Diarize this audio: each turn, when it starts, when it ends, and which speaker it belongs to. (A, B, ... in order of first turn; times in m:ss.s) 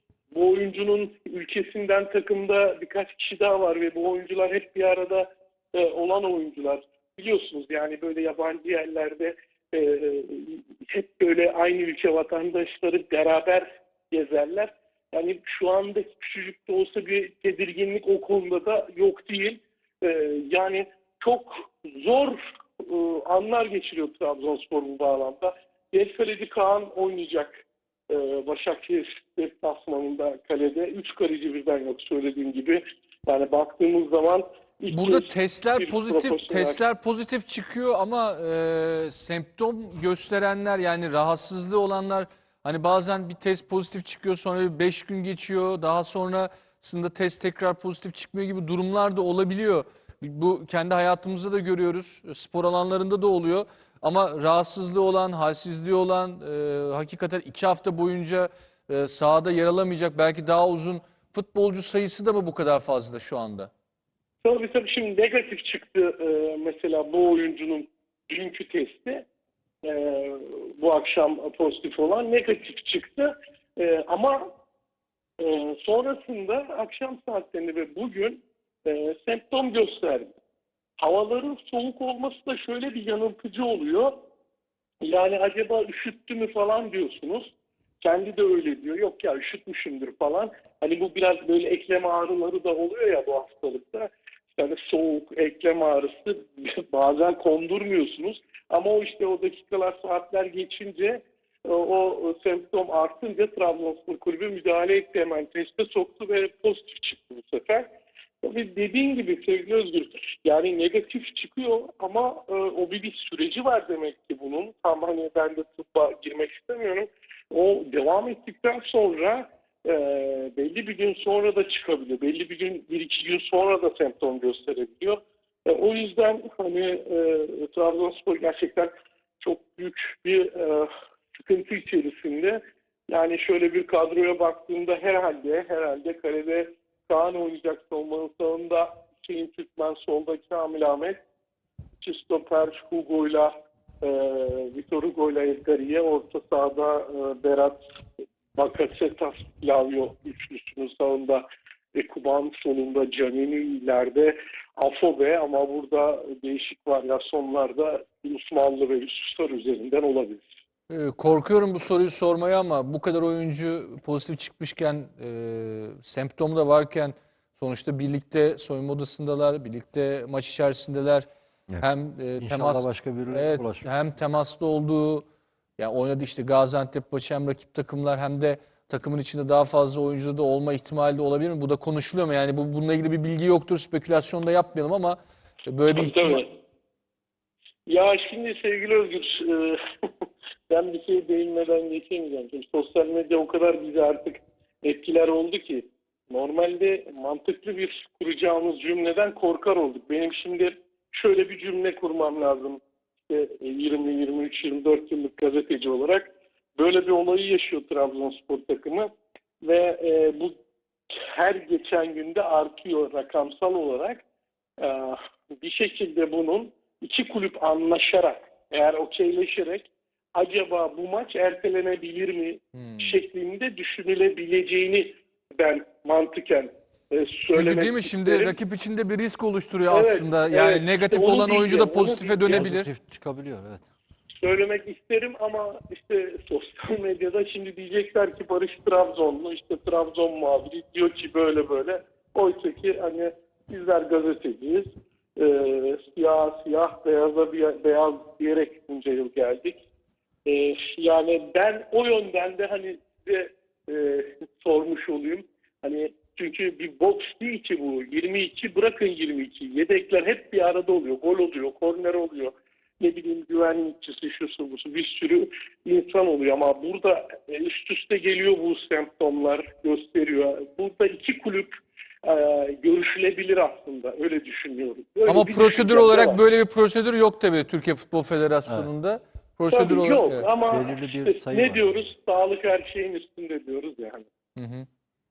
0:00.3-0:27.6 A
0:28.1-0:36.8 A
0:34.9-1:03.7 B
1:04.4-1:09.2 A
1:09.8-1:14.5 A
1:15.4-1:20.3 A
1:21.0-1:24.2 A
1:25.0-1:47.9 A
1:48.4-2:21.2 A
2:22.0-2:27.8 A
2:28.5-2:40.5 A
2:40.9-2:51.2 B
2:51.8-2:55.3 B
2:52.4-2:53.8 C
2:55.8-3:06.4 B
3:05.9-3:06.5 A
3:07.9-3:10.1 A
3:10.7-3:29.1 A
3:29.6-3:30.5 A
3:31.1-3:34.2 A
3:34.8-3:48.6 A
3:42.7-3:43.2 B
3:47.5-3:52.9 B
3:49.9-3:52.6 A
3:52.5-3:53.8 C
3:54.4-4:09.8 A
4:10.4-4:31.7 A
4:32.2-4:36.4 A
4:35.3-4:40.4 B
4:39.7-4:44.3 A
4:40.7-4:41.9 C
4:44.6-4:44.8 B